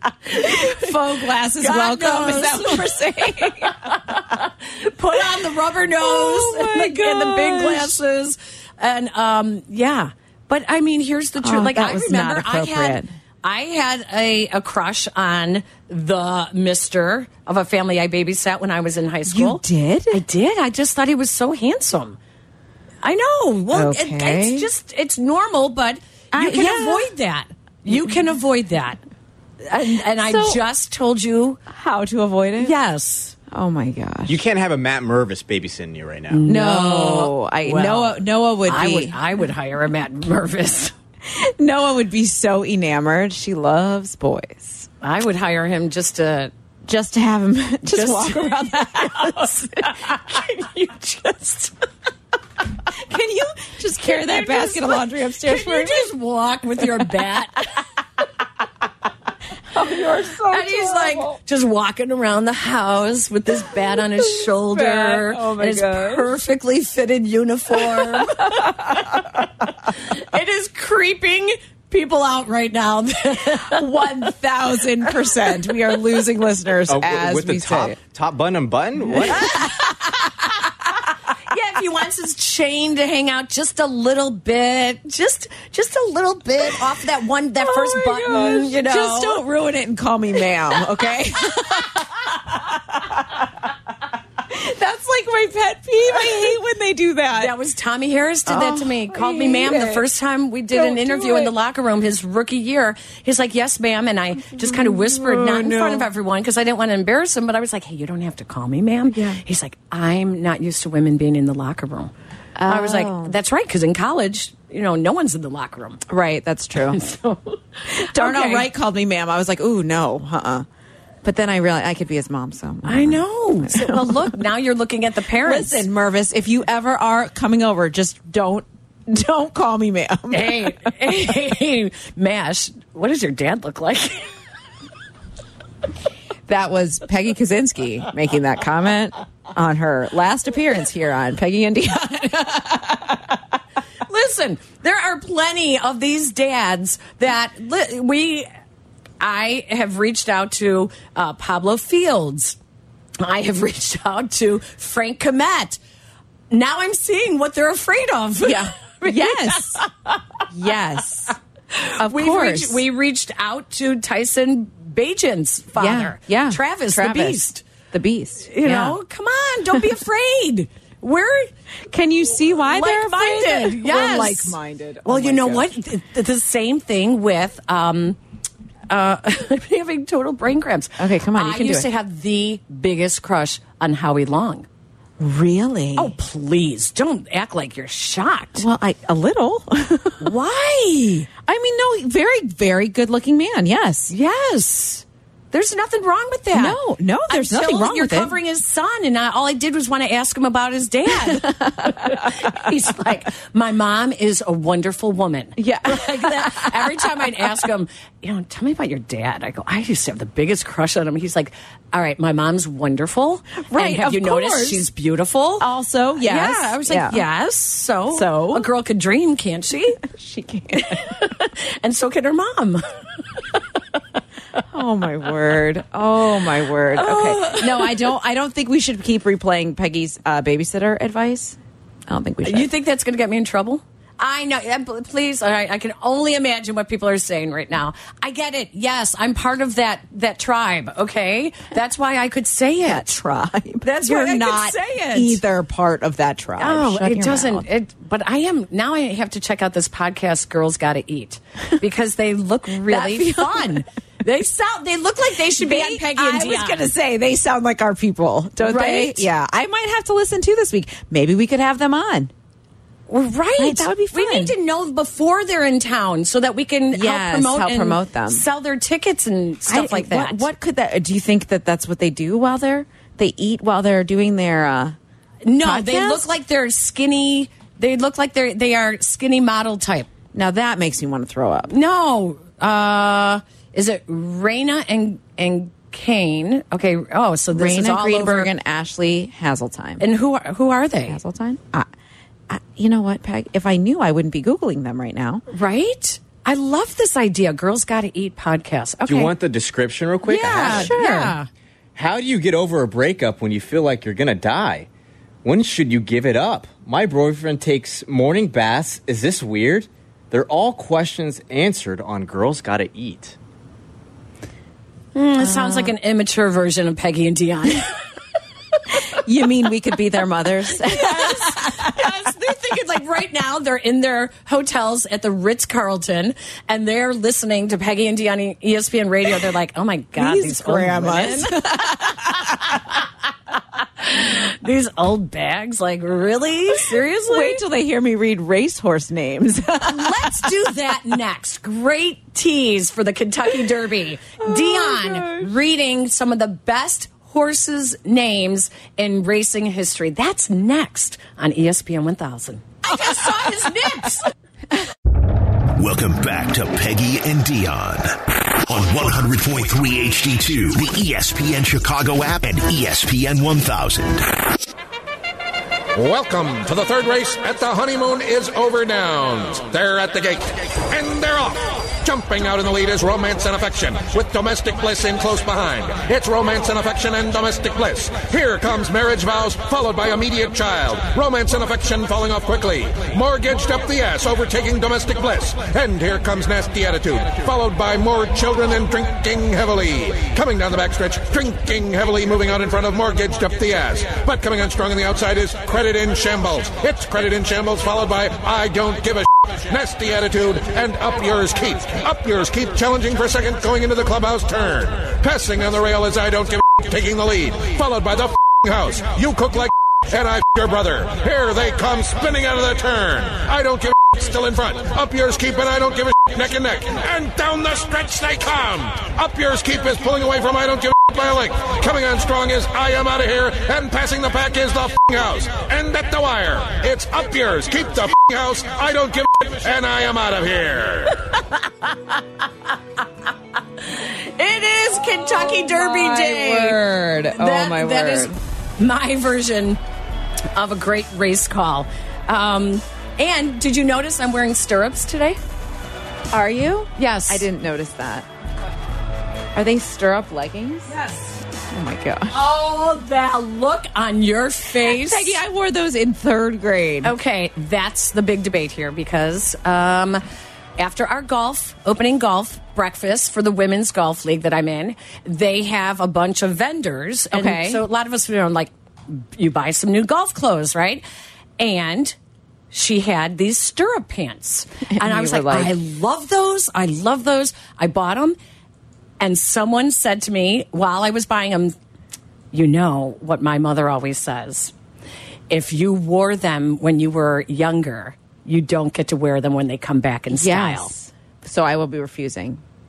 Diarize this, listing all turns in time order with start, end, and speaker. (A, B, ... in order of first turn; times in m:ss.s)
0:00.3-0:00.9 A
0:00.3-0:03.8 B
0:01.6-0:22.2 A
0:06.0-0:08.0 B
0:11.4-0:13.1 B
0:19.3-0:20.2 B
0:23.0-0:29.0 A
0:23.7-0:24.7 B
0:26.3-0:27.1 B
0:29.7-0:31.6 A
0:30.2-0:30.6 B
0:31.7-0:32.7 B
0:32.6-0:33.4 A
0:33.5-0:34.4 B
0:34.3-0:36.4 C
0:36.3-0:40.9 A
0:36.4-0:39.2 B
0:41.3-0:44.9 B
0:45.0-0:46.5 A
0:46.9-0:50.4 B
0:47.9-0:51.7 A
0:53.0-0:56.1 B
0:54.0-0:57.7 A
0:59.7-1:01.4 B
1:00.5-1:09.2 A
1:03.8-1:06.3 B
1:07.7-1:09.3 B
1:09.9-1:14.2 A
1:13.5-1:18.0 B
1:16.9-1:19.6 C
1:19.2-1:20.3 B
1:19.3-1:19.9 A
1:21.5-1:29.4 A
1:27.6-1:33.4 B
1:34.5-1:37.6 B
1:37.3-1:52.1 A
1:38.5-1:40.0 B
1:40.7-1:41.5 B
1:44.4-1:46.1 B
1:49.1-1:49.4 B
1:52.6-1:53.4 B
1:52.7-1:56.0 A
1:56.1-1:57.0 B
1:56.9-1:58.7 A
1:57.9-2:00.6 B
2:01.2-2:04.4 B
2:02.9-2:05.8 A
2:05.4-2:11.1 B
2:10.3-2:14.3 A
2:16.5-2:23.4 B
2:24.1-2:28.5 A
2:29.2-2:32.6 A
2:33.2-2:35.8 A
2:36.5-2:40.1 A
2:38.4-2:39.8 B
2:40.5-2:41.4 B
2:41.8-2:47.6 A
2:42.0-2:42.8 B
2:45.8-2:49.0 B
2:48.5-2:51.5 A
2:51.9-2:55.8 B
2:52.7-2:58.2 A
2:58.9-3:04.7 A
3:01.0-3:01.9 B
3:05.2-3:06.1 B
3:06.0-3:08.6 A
3:08.6-3:10.3 B
3:10.2-3:11.3 A
3:11.4-3:14.1 B
3:14.1-3:35.7 A
3:16.5-3:18.4 B
3:21.1-3:22.5 B
3:25.6-3:27.4 B
3:33.7-3:34.8 B
3:35.6-3:37.2 B
3:36.2-3:40.0 A
3:38.1-3:38.7 B
3:40.0-3:41.2 B
3:40.8-3:42.8 A
3:44.7-3:52.7 B
3:46.9-3:48.1 A
3:52.4-4:03.1 A
4:02.8-4:07.7 B
4:03.8-4:05.4 A
4:06.6-4:16.8 A
4:12.8-4:13.9 B
4:15.6-4:22.3 B
4:18.6-4:19.3 A
4:23.1-4:30.5 A
4:23.6-4:24.5 B
4:26.9-4:28.4 B
4:29.7-4:35.0 B
4:35.4-4:40.1 A
4:35.6-4:36.3 B
4:40.3-4:41.7 B
4:41.7-4:48.5 A
4:47.5-4:50.0 B
4:50.0-4:51.2 A
4:51.1-4:51.9 B
4:52.5-4:55.4 B
4:55.5-4:59.3 A
4:59.0-5:01.0 C
5:00.2-5:01.5 A
5:00.5-5:01.4 B
5:02.0-5:04.9 C
5:05.4-5:13.4 C
5:15.2-5:17.9 A
5:15.4-5:15.9 B
5:19.2-5:21.9 B
5:20.8-5:31.9 A
5:30.2-5:32.8 B
5:32.4-5:32.8 A
5:34.0-5:37.6 A
5:37.3-5:40.5 B
5:39.8-5:54.3 A
5:44.4-5:45.5 B
5:52.9-5:53.7 B
5:55.8-6:04.3 D
6:05.9-7:11.2 E
7:13.9-7:19.8 A
7:15.0-7:18.3 B
7:20.5-7:25.4 A
7:26.3-7:28.3 B
7:27.0-7:27.5 A
7:29.5-7:31.0 B
7:30.9-7:31.4 A
7:31.7-7:32.4 B
7:32.3-7:35.4 A
7:34.8-7:37.2 B
7:37.0-7:40.2 A
7:40.8-7:51.0 A
7:47.3-7:47.8 B
7:51.6-7:52.2 A
7:52.7-7:58.4 A
7:54.9-7:55.8 B
7:59.2-8:01.8 A
8:02.5-8:04.7 A
8:05.5-8:10.9 A
8:10.3-8:12.6 B